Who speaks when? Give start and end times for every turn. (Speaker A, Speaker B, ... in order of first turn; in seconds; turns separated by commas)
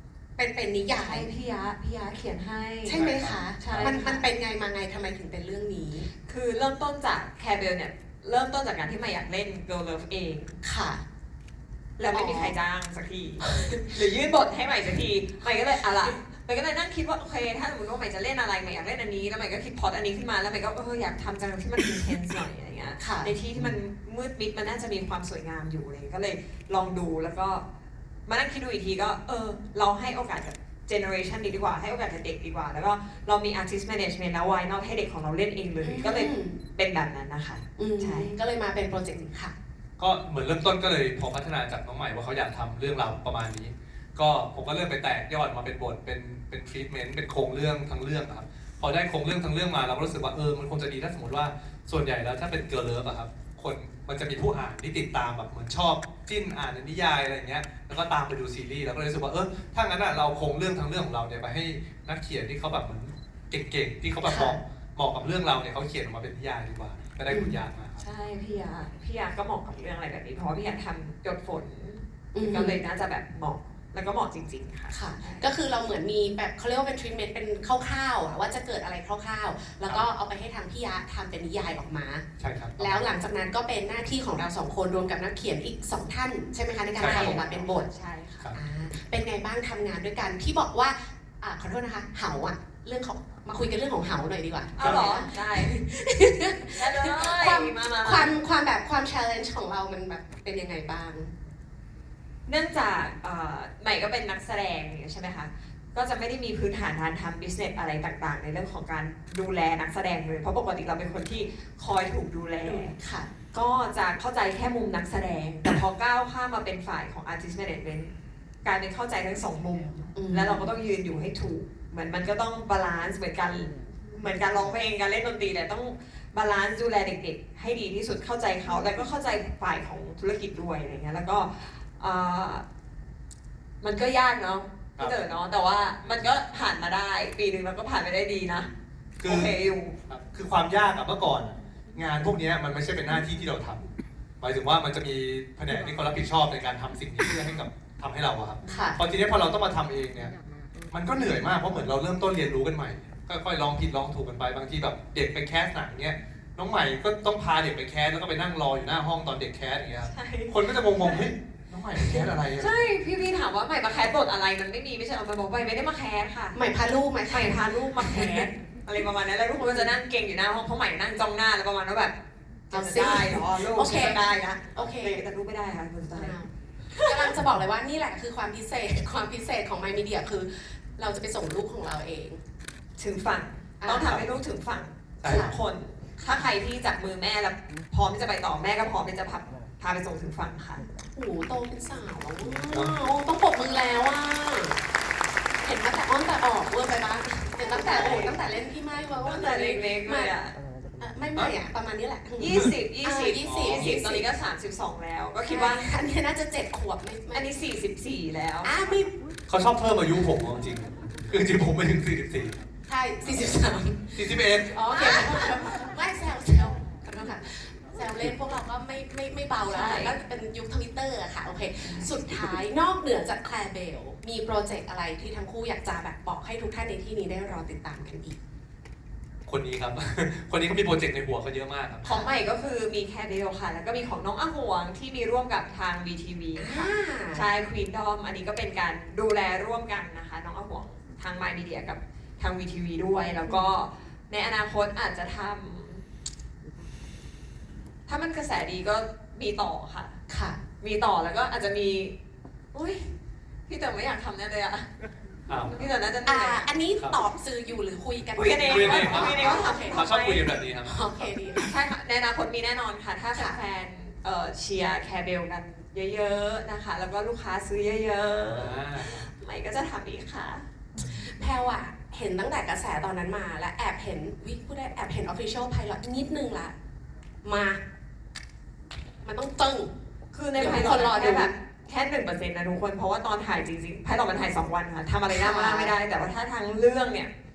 Speaker A: 0.4-1.3, Speaker B: 1.0-3.0, Speaker A: 2.9-6.1, Speaker C: 2.9-3.9, Speaker B: 3.6-4.2, Speaker B: 6.3-10.6, Speaker A: 10.6-11.0, Speaker B: 12.0-27.6, Speaker A: 12.1-12.5, Speaker A: 13.4-13.8, Speaker A: 23.0-23.3, Speaker B: 28.3-38.3, Speaker A: 35.8-36.6, Speaker A: 37.8-39.5, Speaker C: 40.0-68.0, Speaker A: 64.2-64.6, Speaker A: 67.3-67.6, Speaker B: 68.0-75.5, Speaker A: 72.3-72.8, Speaker A: 74.9-82.2, Speaker C: 82.4-83.0, Speaker A: 82.8-87.9, Speaker B: 87.0-88.5, Speaker C: 87.0-87.4, Speaker A: 88.5-101.3, Speaker B: 94.8-95.7, Speaker C: 94.8-95.1, Speaker B: 96.7-98.3, Speaker B: 102.5-112.9, Speaker A: 112.6-113.3, Speaker B: 113.5-118.1, Speaker B: 118.6-132.6, Speaker A: 120.1-120.7, Speaker B: 133.8-138.7, Speaker C: 136.0-136.3, Speaker C: 139.2-139.5, Speaker B: 139.2-139.9, Speaker C: 140.1-143.8, Speaker C: 144.4-150.3, Speaker A: 148.7-149.0, Speaker C: 150.9-162.7, Speaker B: 160.0-161.3, Speaker B: 162.0-166.6, Speaker A: 166.5-168.4, Speaker B: 167.3-172.1, Speaker A: 169.5-169.9, Speaker B: 172.7-176.4, Speaker A: 172.7-175.2, Speaker A: 176.1-182.4, Speaker B: 176.9-177.3, Speaker B: 183.0-190.8, Speaker A: 183.8-184.1, Speaker C: 185.2-185.6, Speaker A: 185.3-185.5, Speaker A: 191.0-194.8, Speaker A: 195.6-200.3, Speaker B: 197.7-198.3, Speaker C: 198.0-198.3, Speaker B: 199.2-200.6, Speaker A: 201.0-204.2, Speaker B: 202.4-205.9, Speaker C: 203.4-204.0, Speaker A: 205.4-207.5, Speaker B: 207.3-208.7, Speaker A: 208.6-209.1, Speaker C: 209.5-212.7, Speaker A: 212.9-228.4, Speaker C: 214.2-215.0, Speaker B: 214.9-215.4, Speaker B: 219.7-220.2, Speaker B: 221.8-222.4, Speaker C: 229.4-232.1, Speaker A: 232.0-232.3, Speaker B: 232.0-246.0, Speaker A: 236.6-237.4, Speaker B: 248.1-250.2, Speaker A: 250.3-250.6, Speaker B: 250.8-252.1, Speaker B: 252.7-253.1, Speaker B: 253.7-254.9, Speaker C: 255.5-255.7, Speaker B: 255.7-256.6, Speaker A: 256.2-260.0, Speaker B: 258.3-260.4, Speaker C: 258.6-261.0, Speaker A: 260.8-261.7, Speaker B: 261.6-270.6, Speaker C: 268.4-269.3, Speaker A: 271.0-276.7, Speaker A: 277.4-277.8, Speaker A: 279.2-279.9, Speaker B: 280.3-287.3, Speaker A: 280.6-281.5, Speaker A: 285.3-285.9